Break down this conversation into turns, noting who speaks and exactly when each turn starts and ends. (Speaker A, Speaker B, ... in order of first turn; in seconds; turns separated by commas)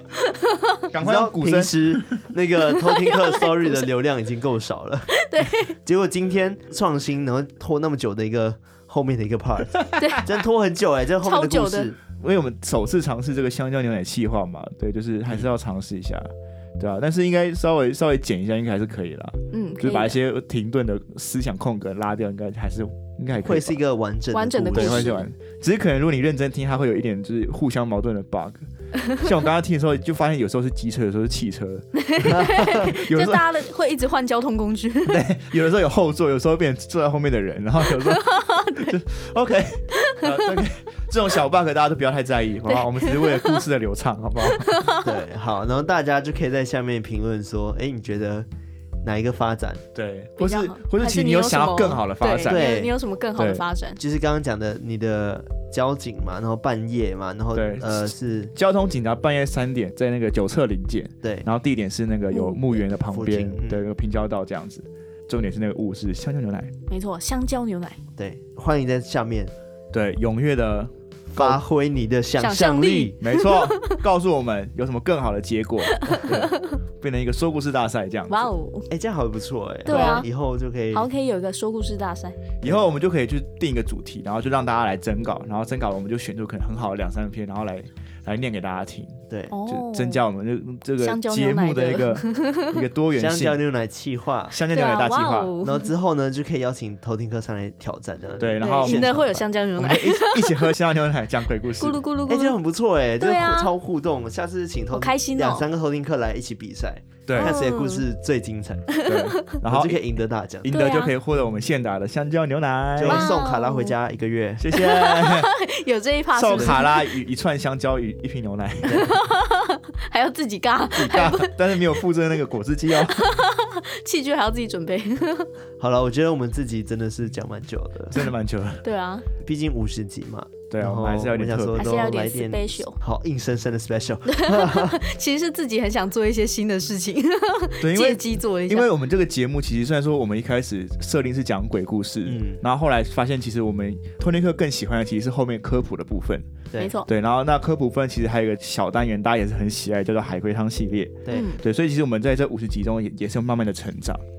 Speaker A: 0.4-0.7, Speaker B: 0.9-2.2, Speaker C: 1.0-12.0, Speaker A: 2.8-3.8, Speaker A: 5.1-5.8, Speaker A: 10.0-10.3, Speaker A: 11.2-11.9, Speaker B: 12.2-23.8, Speaker A: 19.5-20.2, Speaker C: 23.3-25.2, Speaker A: 24.3-25.3, Speaker B: 24.7-33.6, Speaker A: 31.9-35.2, Speaker B: 35.1-44.8, Speaker A: 38.1-38.9, Speaker A: 40.0-40.3, Speaker A: 42.7-43.6, Speaker A: 44.4-45.1, Speaker C: 45.0-48.5, Speaker C: 49.0-49.8, Speaker B: 49.9-52.6, Speaker A: 50.4-54.0, Speaker C: 52.5-52.9, Speaker B: 53.4-53.6, Speaker C: 54.0-58.5, Speaker B: 57.5-66.7, Speaker A: 62.3-62.6, Speaker C: 63.1-63.8, Speaker A: 66.9-68.0, Speaker C: 68.2-69.5, Speaker B: 69.9-71.6, Speaker C: 71.3-73.2, Speaker A: 72.4-74.0, Speaker B: 73.2-78.5, Speaker A: 75.9-76.8, Speaker A: 78.3-78.9, Speaker C: 78.9-81.0, Speaker A: 79.8-80.3, Speaker B: 79.9-80.2, Speaker A: 80.9-82.4, Speaker B: 82.6-93.6, Speaker C: 89.3-89.5, Speaker A: 89.5-90.2, Speaker A: 91.0-92.8, Speaker C: 93.1-94.5, Speaker B: 94.5-95.5, Speaker A: 94.7-95.9, Speaker C: 95.6-99.2, Speaker B: 98.4-102.0, Speaker A: 98.6-100.7, Speaker A: 101.8-102.5, Speaker C: 102.3-108.9, Speaker A: 103.2-103.7, Speaker A: 104.9-105.7, Speaker B: 107.3-107.6, Speaker A: 107.4-108.0, Speaker A: 108.9-109.6, Speaker B: 109.0-110.0, Speaker C: 109.6-110.8, Speaker B: 110.6-113.4, Speaker A: 110.6-111.1, Speaker C: 113.0-114.7, Speaker A: 113.0-113.9, Speaker B: 114.6-115.5, Speaker A: 114.7-117.0, Speaker B: 116.3-119.1, Speaker C: 118.8-119.1, Speaker A: 118.9-121.6, Speaker B: 121.0-123.2, Speaker A: 123.0-125.5, Speaker C: 125.8-128.2, Speaker B: 128.1-128.8, Speaker A: 128.8-129.3, Speaker C: 129.4-135.0, Speaker B: 130.7-131.9, Speaker A: 131.8-133.0, Speaker A: 134.3-138.9, Speaker B: 137.8-154.2, Speaker C: 142.2-142.6, Speaker A: 146.8-147.1, Speaker A: 151.3-151.6